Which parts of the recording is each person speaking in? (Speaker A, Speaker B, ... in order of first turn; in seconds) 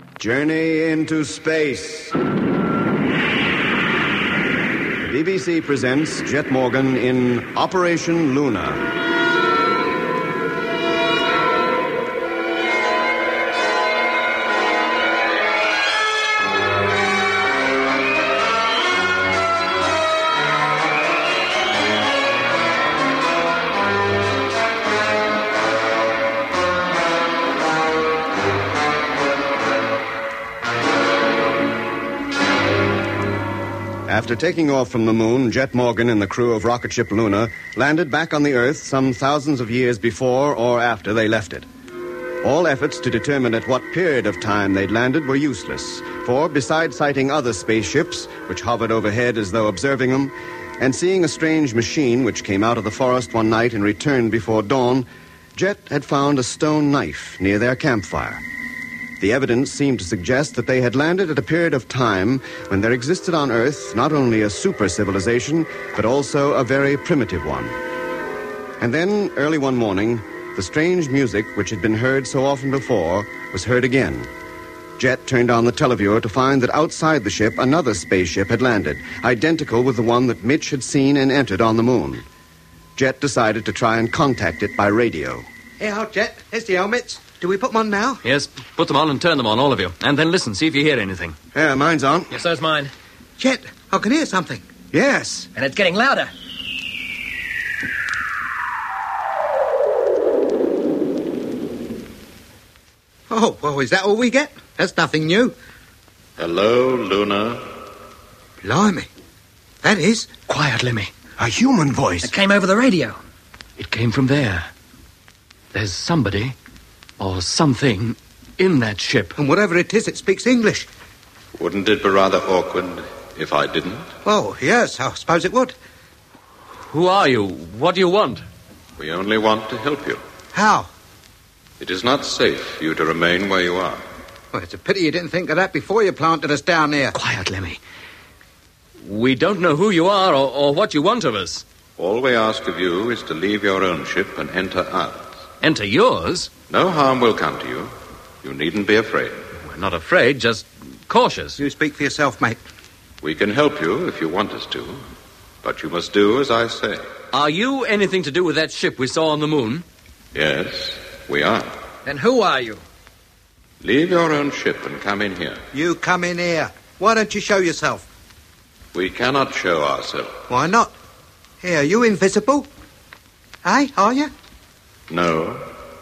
Speaker A: 0.2-2.2, 5.0-8.8, 34.1-41.7, 42.4-58.4, 59.2-67.8, 68.8-74.3, 75.0-82.2, 83.0-85.5, 91.5-92.3, 94.9-95.5, 111.4-112.3
Speaker B: 85.8-88.2, 93.4-94.6, 103.3-105.5, 108.6-109.1, 109.8-110.3, 119.4-120.9, 124.2-125.7, 130.5-130.9, 134.5-137.2, 151.6-152.6, 165.7-168.1, 170.5-170.9, 171.6-172.7, 173.6-174.3
Speaker C: 88.2-91.4, 110.5-111.1, 113.8-114.7, 115.7-116.6, 117.2-119.3, 126.9-128.4, 137.1-137.8, 139.0-141.7, 145.6-146.5, 149.6-151.6, 157.3-159.8
Speaker D: 92.3-92.9, 95.5-96.3, 112.2-113.2, 162.1-162.8
Speaker E: 106.4-107.7, 121.6-124.1, 129.0-130.2, 131.8-134.0, 142.0-145.3, 146.7-147.9, 148.4-149.5, 153.2-155.0, 155.6-157.0, 160.3-161.7, 163.8-165.6, 168.9-170.3, 175.1-175.7